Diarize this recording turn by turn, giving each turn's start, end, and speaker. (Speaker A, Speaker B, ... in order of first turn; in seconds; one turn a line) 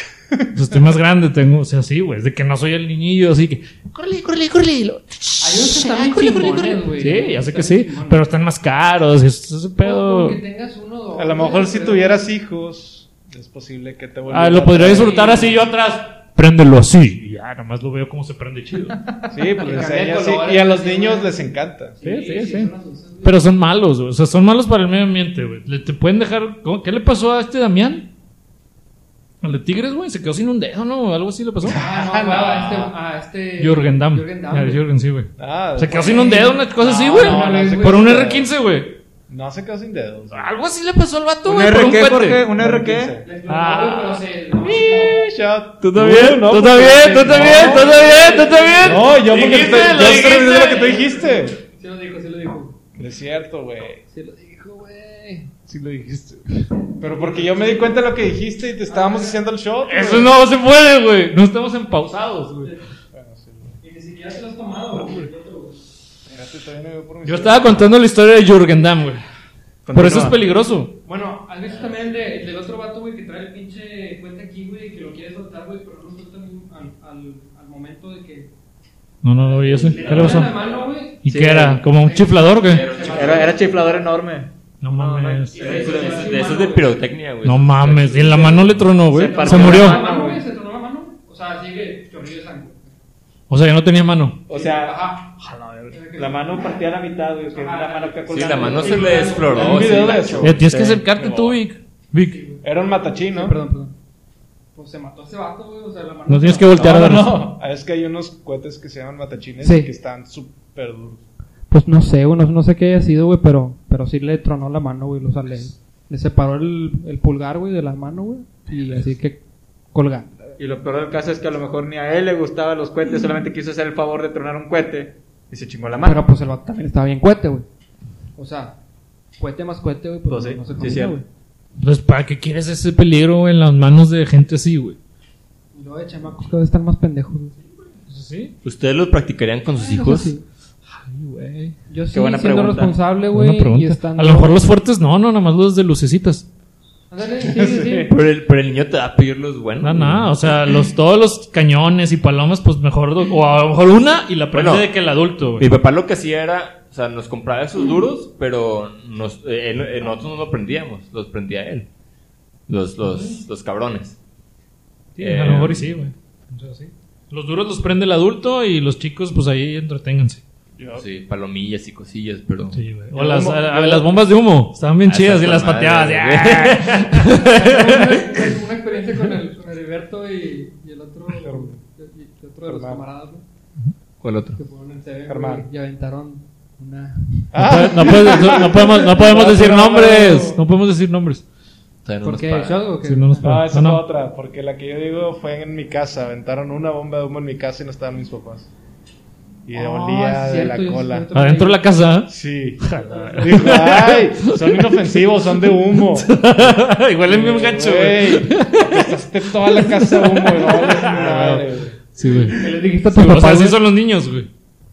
Speaker A: 0.3-0.6
Speaker B: 0.5-10.4
Speaker C: 5.4-8.2
Speaker C: 9.8-12.2
Speaker A: 11.1-15.6
Speaker B: 14.3-19.2
Speaker C: 14.9-15.6
Speaker A: 19.3-22.0
Speaker C: 19.6-21.4
Speaker C: 22.0-23.4
Speaker B: 22.0-22.7
Speaker B: 23.2-28.1
Speaker B: 29.4-31.8
Speaker A: 31.6-32.9
Speaker C: 31.7-34.8
Speaker B: 33.6-39.0
Speaker A: 35.4-38.5
Speaker C: 35.9-38.2
Speaker A: 39.3-40.5
Speaker B: 40.3-42.5
Speaker D: 41.4-43.1
Speaker A: 42.5-43.3
Speaker C: 43.2-45.2
Speaker B: 43.5-44.2
Speaker A: 44.7-51.6
Speaker B: 45.8-50.9
Speaker C: 47.1-49.2
Speaker C: 50.3-52.8
Speaker A: 53.0-54.0
Speaker C: 54.1-55.5
Speaker B: 55.7-56.7
Speaker A: 57.0-60.4
Speaker C: 57.2-57.9
Speaker C: 58.9-59.4
Speaker B: 59.9-62.7
Speaker A: 63.1-63.8
Speaker C: 63.8-65.8
Speaker A: 66.3-67.9
Speaker B: 67.2-69.2
Speaker D: 69.8-70.4
Speaker B: 69.9-71.0
Speaker C: 71.0-78.5
Speaker B: 79.2-80.6
Speaker C: 79.4-81.2
Speaker E: 79.9-80.8
Speaker B: 81.2-82.9
Speaker D: 81.3-81.8
Speaker C: 82.0-83.6
Speaker E: 82.6-83.6
Speaker D: 83.1-86.8
Speaker B: 84.8-85.7
Speaker C: 85.5-86.9
Speaker E: 85.6-88.8
Speaker B: 87.4-90.0
Speaker D: 88.3-90.4
Speaker C: 89.1-92.9
Speaker B: 93.5-94.4
Speaker D: 94.5-95.0
Speaker C: 94.5-95.3
Speaker B: 95.4-95.9
Speaker C: 95.9-96.5
Speaker D: 96.1-101.5
Speaker C: 97.5-100.1
Speaker E: 98.3-100.6
Speaker A: 99.5-100.7
Speaker B: 100.4-102.5
Speaker C: 102.3-102.6
Speaker A: 102.6-103.6
Speaker C: 103.2-103.9
Speaker C: 104.7-106.8
Speaker B: 106.3-107.5
Speaker A: 106.7-111.2
Speaker C: 109.6-109.9
Speaker C: 111.7-119.4
Speaker C: 119.9-120.6
Speaker D: 120.6-126.2
Speaker C: 126.0-127.7
Speaker C: 128.4-128.8
Speaker C: 129.4-131.2
Speaker D: 130.3-131.2
Speaker B: 131.8-135.0
Speaker C: 135.7-137.5
Speaker B: 138.0-138.5
Speaker E: 138.6-140.3
Speaker C: 139.8-140.4
Speaker B: 140.9-141.8
Speaker C: 141.9-144.6
Speaker D: 142.1-143.0
Speaker B: 143.3-146.4
Speaker C: 147.1-148.1
Speaker A: 147.6-148.1
Speaker E: 148.1-150.3
Speaker B: 149.8-155.7
Speaker E: 154.5-154.9
Speaker E: 155.6-161.9
Speaker E: 162.7-164.2
Speaker B: 163.0-163.4
Speaker B: 165.2-170.4
Speaker E: 165.2-165.9
Speaker A: 170.8-171.0
Speaker E: 170.9-172.8
Speaker B: 172.7-178.5
Speaker A: 173.1-174.2
Speaker E: 175.0-177.0
Speaker C: 177.2-183.4
Speaker A: 181.4-181.8
Speaker A: 182.7-183.0
Speaker E: 184.2-184.6
Speaker C: 184.6-187.6
Speaker A: 185.3-185.7
Speaker A: 187.5-190.6
Speaker B: 187.6-191.4
Speaker E: 192.0-192.8
Speaker C: 192.2-193.6
Speaker B: 193.0-194.0
Speaker A: 193.4-198.7
Speaker A: 199.7-201.3
Speaker C: 199.8-201.9
Speaker B: 201.3-212.6
Speaker A: 202.3-212.4
Speaker C: 203.0-203.6
Speaker C: 212.5-213.8
Speaker B: 213.1-214.5